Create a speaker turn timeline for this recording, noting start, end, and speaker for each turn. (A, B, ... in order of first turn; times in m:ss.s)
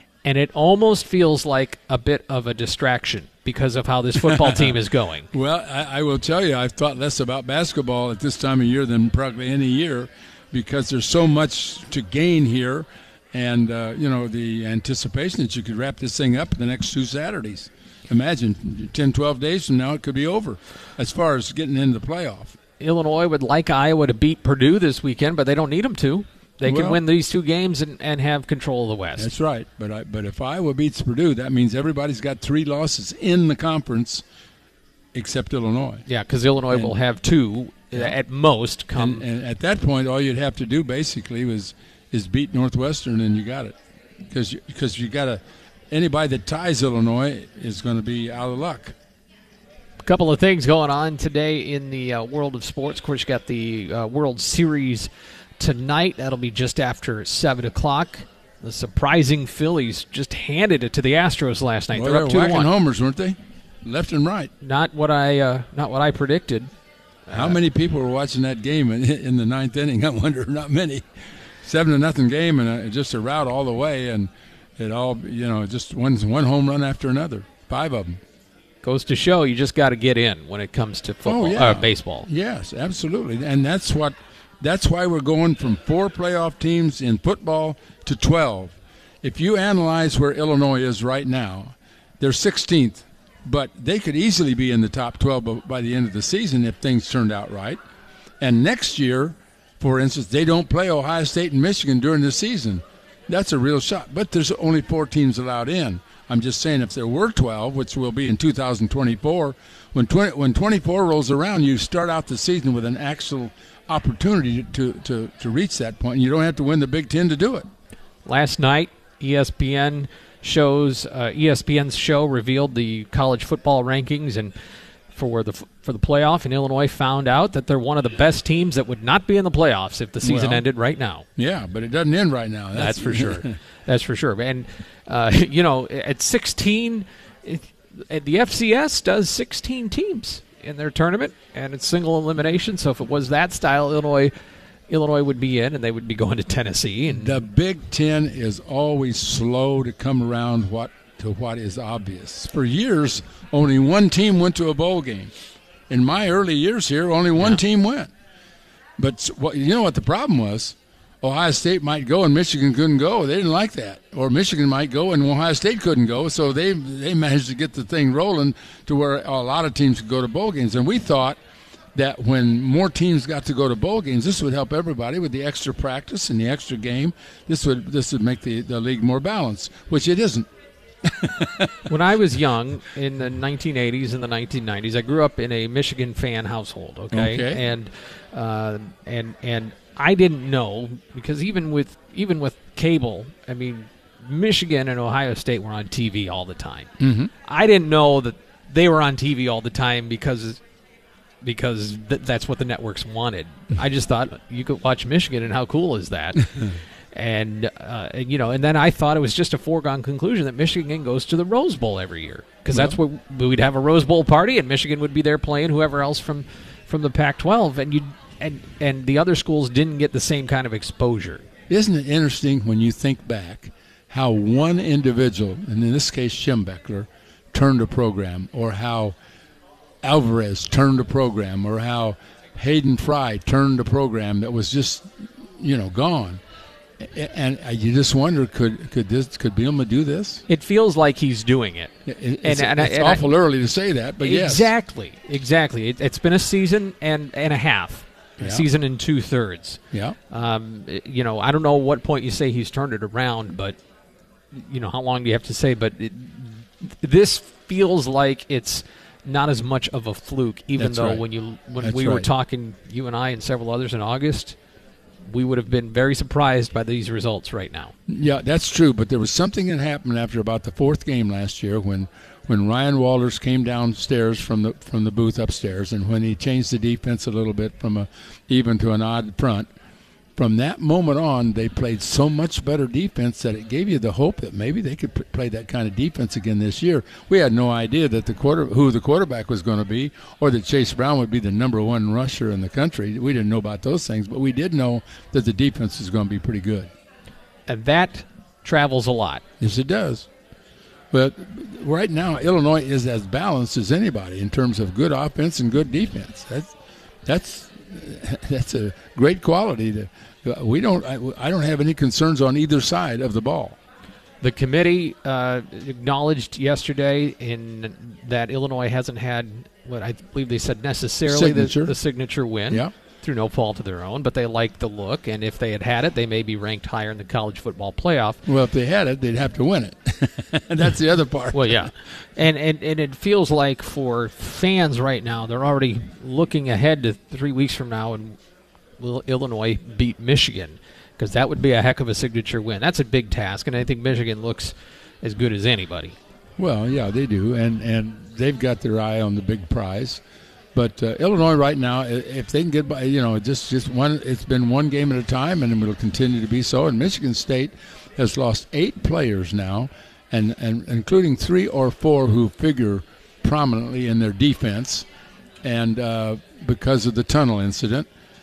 0:00.2-0:05.3 A
0:04.3-0:04.7 B
0:05.3-0:22.6 B
0:22.8-0:29.3 A
0:26.6-0:27.0 B
0:29.2-0:34.2 B
0:35.1-0:36.0 B
0:36.1-0:39.2 A
0:38.9-0:43.8 B
0:44.3-0:48.9 B
0:50.0-1:02.7 A
1:01.9-1:04.5 B
1:04.6-1:06.7 A
1:07.3-1:07.6 A
1:07.3-1:11.1 B
1:11.6-1:18.2 B
1:18.8-1:22.2 A
1:21.2-1:37.8 B
1:38.4-1:57.7 B
1:58.2-2:04.5 A
2:05.1-2:11.2 A
2:10.2-2:10.6 B
2:11.4-2:13.5 B
2:12.7-2:24.3 A
2:24.9-2:27.4 A
2:27.1-2:35.3 B
2:35.9-2:38.1 B
2:39.0-2:51.4 B
2:51.9-3:00.5 B
3:01.0-3:01.7 B
3:01.9-3:16.9 A
3:07.1-3:07.6 B
3:17.0-3:17.3 B
3:17.4-3:20.6 A
3:21.4-3:41.4 A
3:32.7-3:33.0 B
3:41.7-3:49.1 B
3:50.0-3:56.4 B
3:57.0-4:00.4 B
4:00.5-4:03.3 A
4:02.0-4:04.7 B
4:04.2-4:09.8 A
4:08.4-4:08.7 B
4:10.3-4:13.8 A
4:14.5-4:24.6 A
4:20.8-4:21.2 B
4:21.8-4:22.3 B
4:25.2-4:27.9 A
4:28.1-4:39.7 B
4:40.4-4:56.9 B
4:57.7-4:59.4 A
4:59.6-5:00.3 B
5:01.1-5:06.7 B
5:07.2-5:13.8 B
5:14.4-5:28.4 A
5:21.2-5:21.9 B
5:28.4-5:31.9 B
5:31.5-5:38.4 A
5:39.0-5:46.2 A
5:46.6-5:50.2 B
5:50.7-6:05.0 B
6:05.6-6:08.1 B